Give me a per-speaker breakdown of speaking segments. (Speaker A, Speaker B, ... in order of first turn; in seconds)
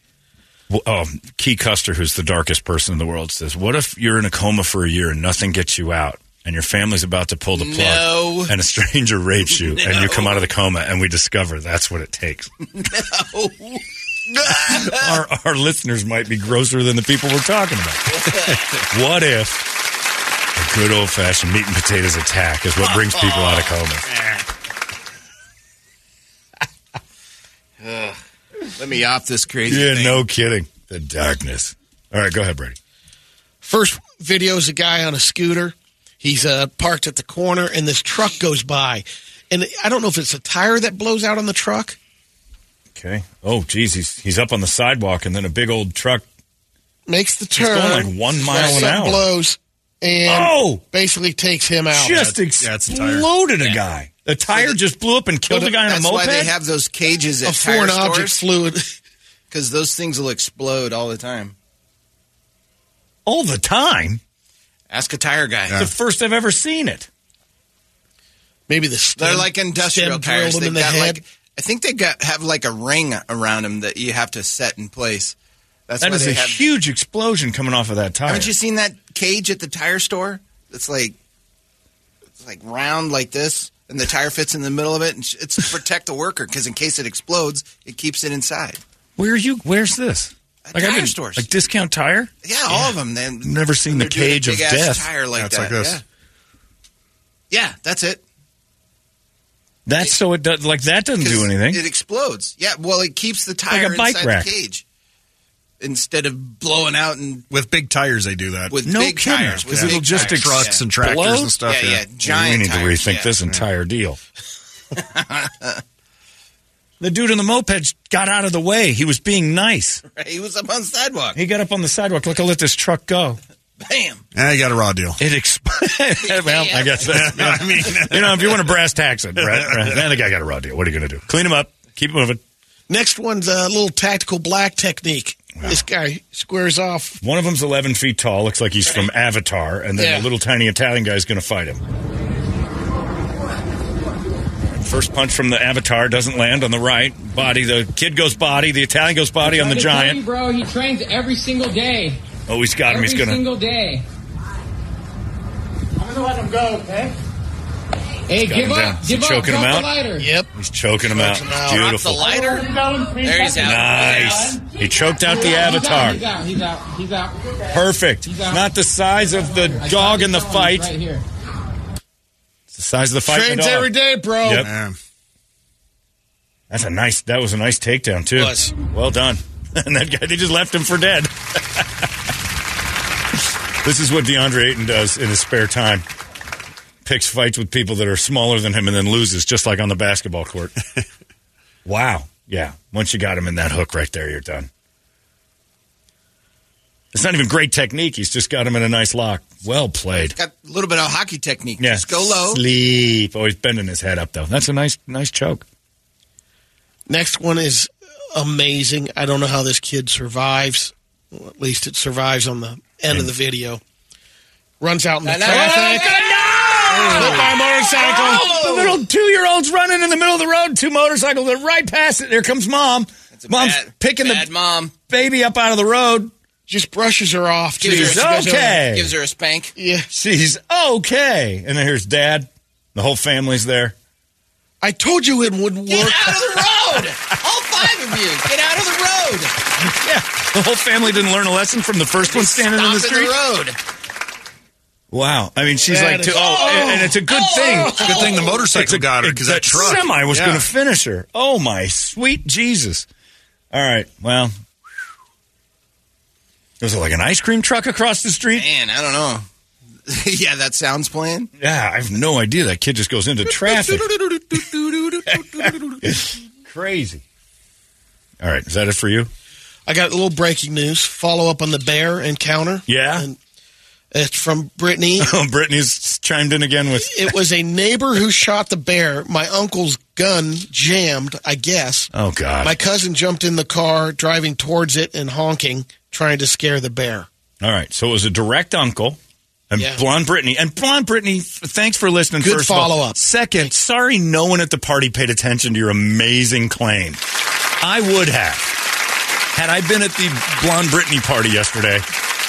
Speaker A: 0.7-12.5, 14.6-18.3, 18.9-19.7, 20.6-24.1, 29.7-32.8, 43.0-46.2, 47.6-49.3, 50.3-50.8, 51.9-56.5, 63.3-64.2, 65.8-67.1, 76.0-78.5, 89.2-95.1, 99.9-101.8, 103.7-104.5, 108.8-111.5, 112.2-114.2, 117.0-120.0, 121.3-123.4, 125.2-132.4, 137.2-141.8, 144.7-150.2, 152.5-153.4, 158.4-159.9, 160.5-162.4, 163.6-166.2, 167.7-170.9, 172.7-173.9, 174.4-174.7, 176.7-182.1, 183.8-186.1, 187.0-190.8, 191.8-194.7, 197.1-200.4, 201.8-205.7, 215.4-224.5, 225.1-226.3, 227.8-229.1, 230.1-233.9, 239.8-243.3, 245.1-253.1, 253.7-254.5, 256.8-258.7, 261.6-264.1, 265.3-267.2, 268.4-269.3, 272.9-273.3, 275.2-277.3, 282.1-282.8, 287.6-289.2, 289.7-297.2, 297.8-298.8, 299.5-302.1
Speaker B: 7.5-8.5, 9.6-10.4, 12.8-15.2, 18.1-18.8, 22.9-24.3, 27.8-30.2, 55.6-58.4, 59.5-61.5, 64.9-65.8, 69.2-75.3, 75.9-76.7, 78.3-81.2, 82.4-88.8, 90.7-91.5, 92.4-96.0, 97.5-98.2, 101.2-104.8, 105.8-107.5, 108.7-110.8, 111.7-113.4, 114.9-115.8, 120.1-121.4, 123.8-124.2, 126.2-127.6, 161.7-164.6, 200.3-202.6, 215.2-219.0, 223.3-224.9, 227.8-229.8, 235.9-239.6, 242.5-243.7, 246.3-248.6, 258.5-259.5, 260.1-261.5, 263.7-265.4
Speaker C: 33.6-42.0, 47.1-52.4, 57.5-58.8, 68.7-71.2, 132.9-137.2, 140.0-140.3, 160.2-160.5, 161.1-161.8, 173.3-174.7, 178.3-178.7, 207.1-213.8, 214.8-216.1, 216.9-218.7, 226.7-228.8, 229.8-230.1, 234.8-236.4, 245.8-247.2, 269.9-273.4, 274.1-275.3, 277.0-282.1, 282.6-287.3, 289.8-290.0, 292.4-293.2
Speaker D: 52.6-53.3, 95.3-96.0, 107.5-108.8, 109.6-112.1, 124.3-125.2, 127.1-128.6, 129.5-129.9, 174.6-175.0, 248.0-250.7
Speaker E: 149.4-152.2, 152.9-154.1, 158.3-160.3, 165.3-167.7, 168.2-168.7, 169.3-171.2